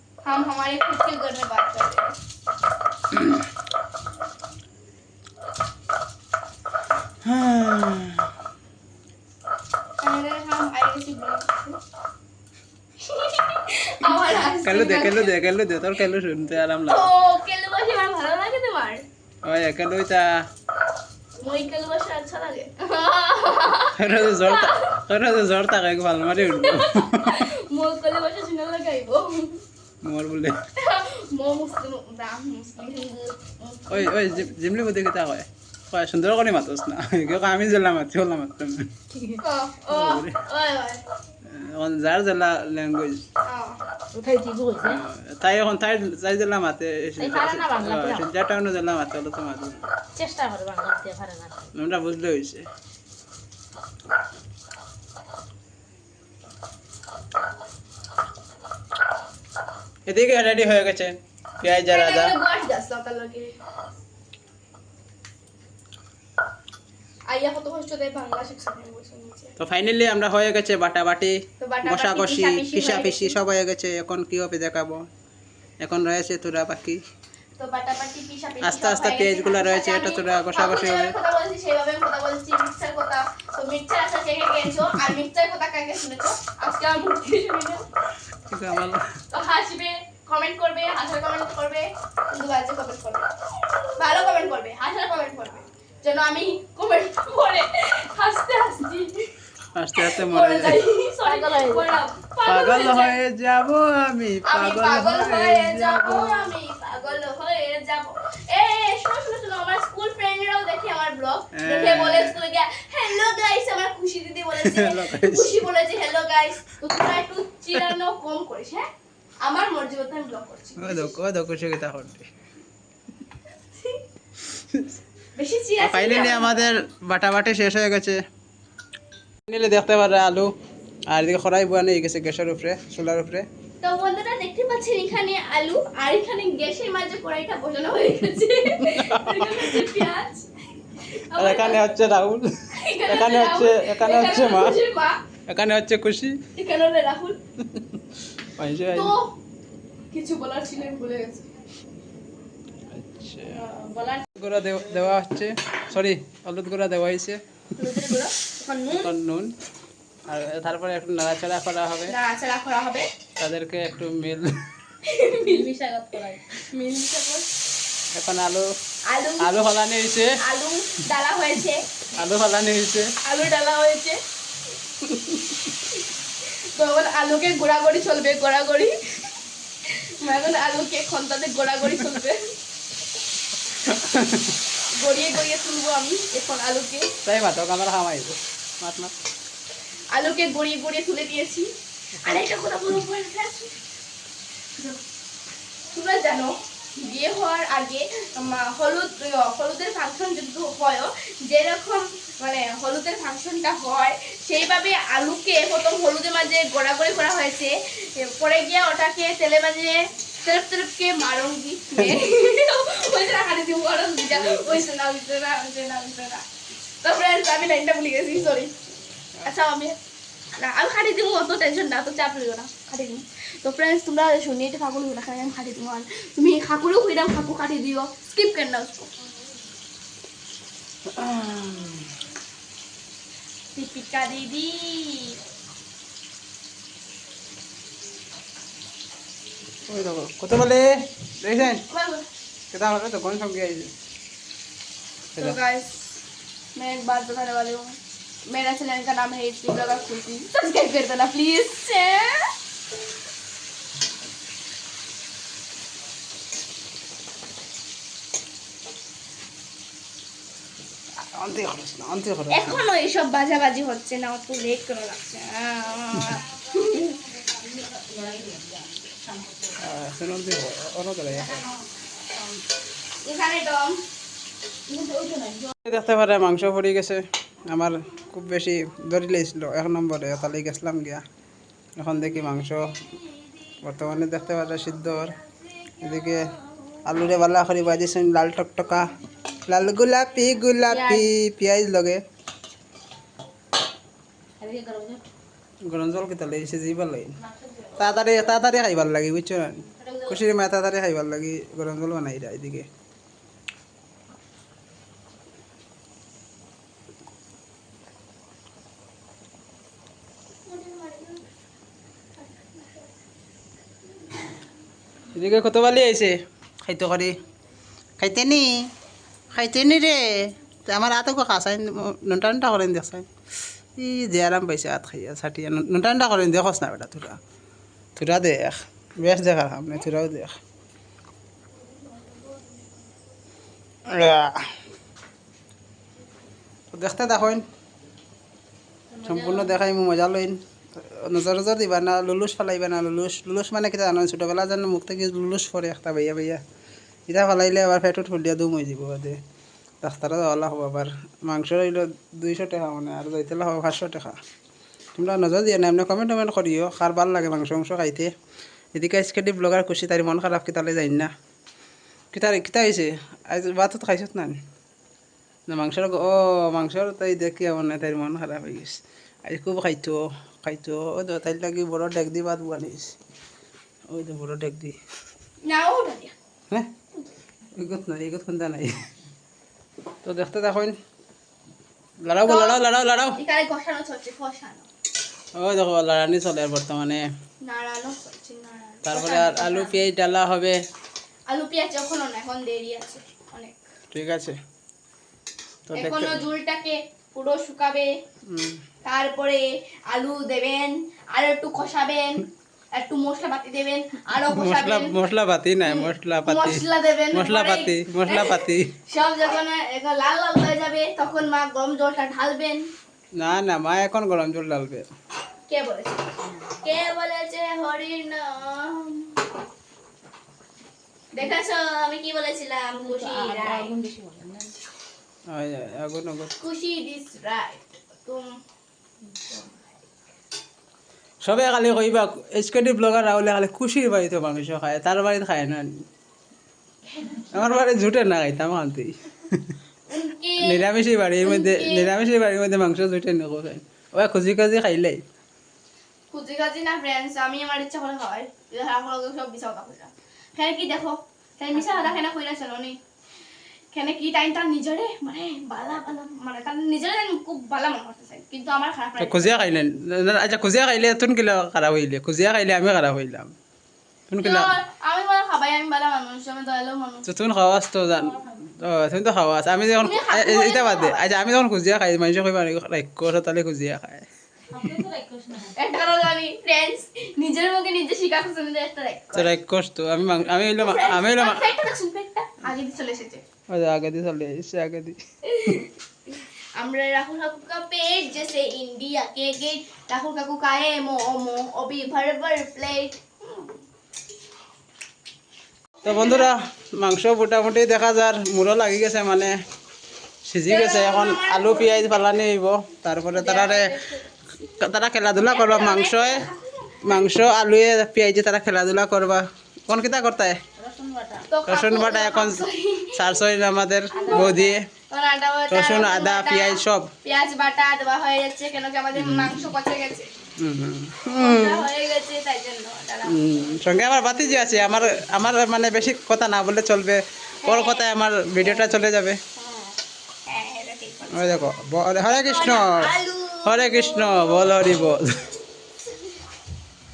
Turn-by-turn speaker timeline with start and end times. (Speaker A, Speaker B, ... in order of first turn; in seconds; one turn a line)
Speaker A: 0.2-2.2
Speaker B: 7.2-8.2
Speaker A: 10.0-11.8
Speaker A: 13.0-15.3
Speaker B: 14.6-17.1
Speaker A: 16.9-19.0
Speaker B: 19.4-20.4
Speaker A: 21.4-25.0
Speaker B: 23.9-27.4
Speaker A: 26.4-29.6
Speaker B: 30.0-30.6
Speaker A: 30.8-34.5
Speaker B: 33.9-38.9
Speaker C: 39.1-39.4
Speaker A: 39.4-41.0
Speaker B: 39.9-40.4
Speaker B: 41.5-43.2
Speaker A: 43.4-43.8
Speaker C: 44.1-45.0
Speaker B: 44.8-49.9
Speaker C: 47.2-48.2
Speaker C: 50.1-51.7
Speaker B: 51.7-52.6
Speaker B: 60.1-62.3
Speaker A: 61.9-63.6
Speaker A: 67.3-69.5
Speaker B: 69.6-75.1
Speaker A: 71.6-73.4
Speaker B: 75.8-77.0
Speaker A: 77.6-87.8
Speaker B: 78.6-81.1
Speaker B: 88.5-89.1
Speaker A: 89.3-99.3
Speaker B: 99.8-100.8
Speaker A: 100.0-103.2
Speaker C: 101.2-102.0
Speaker B: 102.5-106.5
Speaker A: 104.5-118.9
Speaker B: 111.5-112.3
Speaker B: 114.5-115.6
Speaker A: 119.4-121.2
Speaker B: 120.8-122.3
Speaker A: 123.8-124.0
Speaker A: 125.3-126.7
Speaker B: 125.8-128.2
Speaker B: 129.5-130.5
Speaker B: 131.1-133.4
Speaker A: 133.8-141.9
Speaker B: 138.8-139.9
Speaker B: 141.3-144.8
Speaker A: 142.7-145.2
Speaker B: 145.5-146.4
Speaker A: 146.6-147.4
Speaker B: 148.6-149.1
Speaker A: 148.9-149.3
Speaker A: 150.1-151.5
Speaker B: 152.9-153.6
Speaker A: 153.6-154.2
Speaker B: 154.3-157.4
Speaker A: 157.8-158.3
Speaker C: 158.4-159.1
Speaker B: 158.9-159.5
Speaker B: 160.3-162.1
Speaker A: 162.1-163.1
Speaker B: 163.4-164.6
Speaker A: 165.0-165.7
Speaker C: 165.3-166.4
Speaker A: 166.7-167.5
Speaker B: 168.1-168.7
Speaker A: 169.1-169.5
Speaker B: 169.4-170.4
Speaker A: 170.4-171.8
Speaker B: 172.1-173.1
Speaker A: 173.2-174.2
Speaker B: 175.0-175.4
Speaker A: 176.4-179.0
Speaker A: 179.8-182.5
Speaker B: 183.8-184.6
Speaker A: 184.9-187.1
Speaker B: 187.2-189.1
Speaker A: 190.1-191.7
Speaker A: 192.2-193.8
Speaker A: 195.9-216.4
Speaker B: 214.4-214.7
Speaker A: 217.0-218.8
Speaker A: 219.4-220.0
Speaker A: 220.6-229.3
Speaker B: 231.1-232.1
Speaker A: 233.7-235.4
Speaker B: 239.9-241.8
Speaker A: 241.6-242.3
Speaker B: 242.7-243.9
Speaker A: 245.4-246.2
Speaker A: 246.7-252.5
Speaker B: 261.2-262.8
Speaker A: 262.5-267.1
Speaker C: 266.8-269.8
Speaker B: 269.8-271.6
Speaker C: 271.3-272.6
Speaker A: 273.2-274.0
Speaker C: 274.9-275.7
Speaker B: 275.8-281.2
Speaker B: 282.0-283.0
Speaker B: 283.8-285.4
Speaker B: 286.0-286.5
Speaker B: 287.0-289.1
Speaker B: 289.7-292.2
Speaker C: 290.9-291.2
Speaker C: 294.6-295.2
Speaker B: 295.8-297.4
Speaker C: 297.4-298.1
Speaker B: 298.0-302.9
Speaker C: 300.0-300.4
Speaker A: 310.6-311.4
Speaker A: 312.4-313.1
Speaker B: 315.3-317.4
Speaker B: 318.2-318.8
Speaker B: 319.5-323.3
Speaker B: 324.0-327.4
Speaker B: 328.1-330.6
Speaker A: 331.9-332.9
Speaker B: 334.1-334.7
Speaker B: 336.9-337.6
Speaker C: 339.1-339.8
Speaker B: 339.2-346.6
Speaker B: 347.3-349.4
Speaker B: 350.0-354.4
Speaker B: 355.1-358.3
Speaker B: 358.9-361.3
Speaker B: 362.3-364.6
Speaker B: 365.7-373.1
Speaker B: 374.1-375.0
Speaker A: 375.6-376.3
Speaker B: 377.8-379.0
Speaker B: 380.2-381.0
Speaker B: 382.2-383.4
Speaker A: 382.4-382.8
Speaker A: 383.4-384.9
Speaker B: 385.6-387.2
Speaker A: 387.6-389.8
Speaker B: 389.0-390.8
Speaker A: 391.5-393.8
Speaker B: 394.1-394.6
Speaker B: 395.9-396.4
Speaker A: 395.9-398.1
Speaker B: 398.5-398.8
Speaker A: 399.0-405.2
Speaker B: 404.5-408.9
Speaker A: 405.9-412.9
Speaker B: 413.4-415.1
Speaker A: 415.7-419.4
Speaker C: 416.4-416.8
Speaker A: 421.3-423.9
Speaker C: 423.0-424.7
Speaker B: 425.5-426.5
Speaker A: 426.6-428.6
Speaker C: 429.2-429.8
Speaker B: 431.4-436.0
Speaker C: 437.1-437.4
Speaker B: 437.5-439.7
Speaker A: 440.1-440.9
Speaker B: 440.6-445.2
Speaker A: 441.4-442.1
Speaker A: 446.3-453.0
Speaker C: 451.7-452.2
Speaker A: 453.9-459.6
Speaker B: 459.2-463.5
Speaker B: 464.3-464.7
Speaker A: 464.4-467.3
Speaker B: 467.2-474.2
Speaker C: 468.1-468.6
Speaker A: 470.0-471.2
Speaker C: 474.7-475.8
Speaker A: 475.8-479.5
Speaker B: 479.3-481.8
Speaker A: 480.8-483.4
Speaker B: 483.7-485.8
Speaker A: 485.4-493.7
Speaker A: 496.0-496.5
Speaker B: 496.0-499.6
Speaker B: 500.4-503.9
Speaker A: 500.7-502.1
Speaker A: 503.4-504.2
Speaker B: 504.6-506.5
Speaker A: 505.4-507.3
Speaker B: 507.0-510.6
Speaker C: 510.8-511.5
Speaker A: 511.5-513.3
Speaker B: 511.6-514.8
Speaker C: 514.1-514.7
Speaker A: 514.2-520.3
Speaker B: 515.7-517.1
Speaker B: 519.1-519.7
Speaker B: 520.6-521.8
Speaker A: 521.4-523.5
Speaker B: 523.2-529.4
Speaker A: 527.6-528.0
Speaker A: 528.6-528.9
Speaker A: 529.5-531.6
Speaker B: 531.3-533.1
Speaker A: 532.4-535.2
Speaker B: 533.6-535.4